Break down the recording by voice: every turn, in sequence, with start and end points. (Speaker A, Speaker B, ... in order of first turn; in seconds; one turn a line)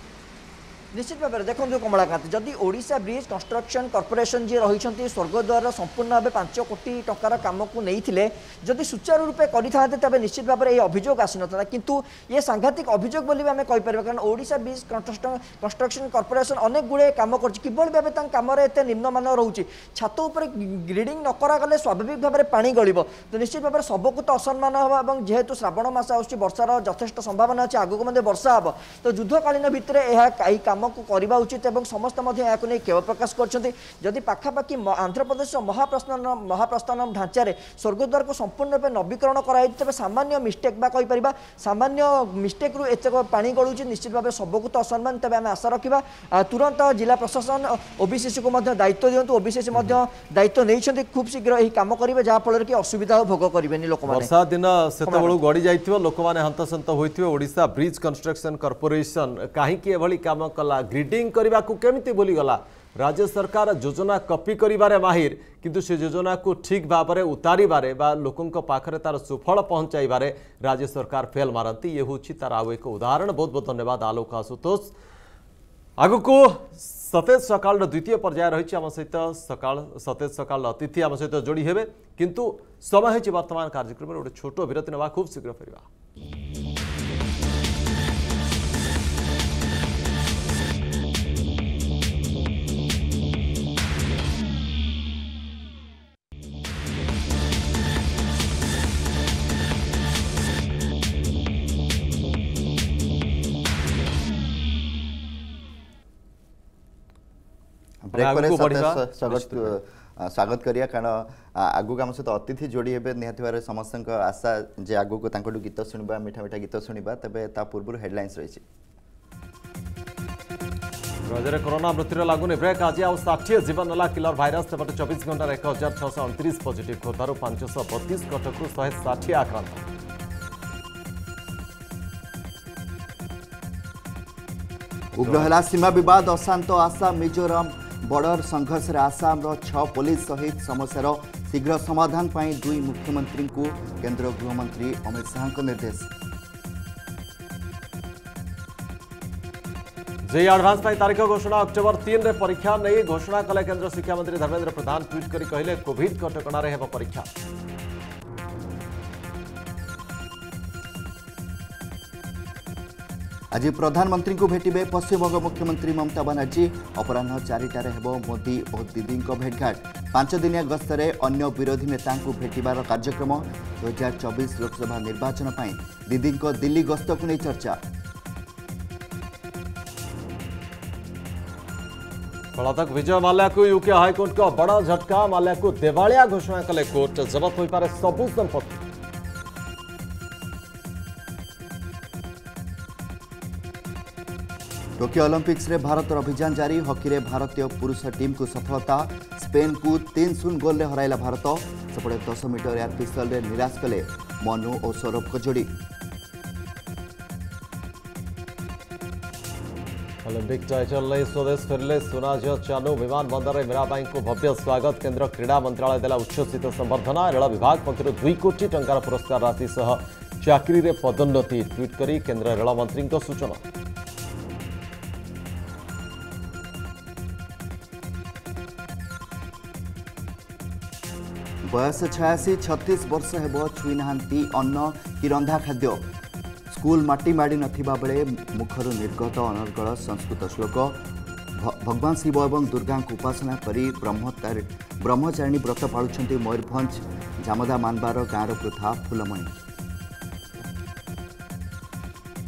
Speaker A: 0.9-54.3
Speaker B: 54.1-74.9
Speaker A: 55.0-55.4
Speaker B: 76.0-85.9
Speaker C: 108.0-118.6
Speaker B: 108.1-109.8
Speaker B: 121.3-129.8
Speaker C: 135.1-146.1
Speaker B: 135.2-135.5
Speaker B: 150.3-157.3
Speaker C: 163.5-177.8
Speaker B: 182.6-188.8
Speaker C: 195.0-205.7
Speaker B: 210.2-223.6
Speaker C: 231.7-236.0
Speaker C: 236.7-241.0
Speaker C: 241.6-249.6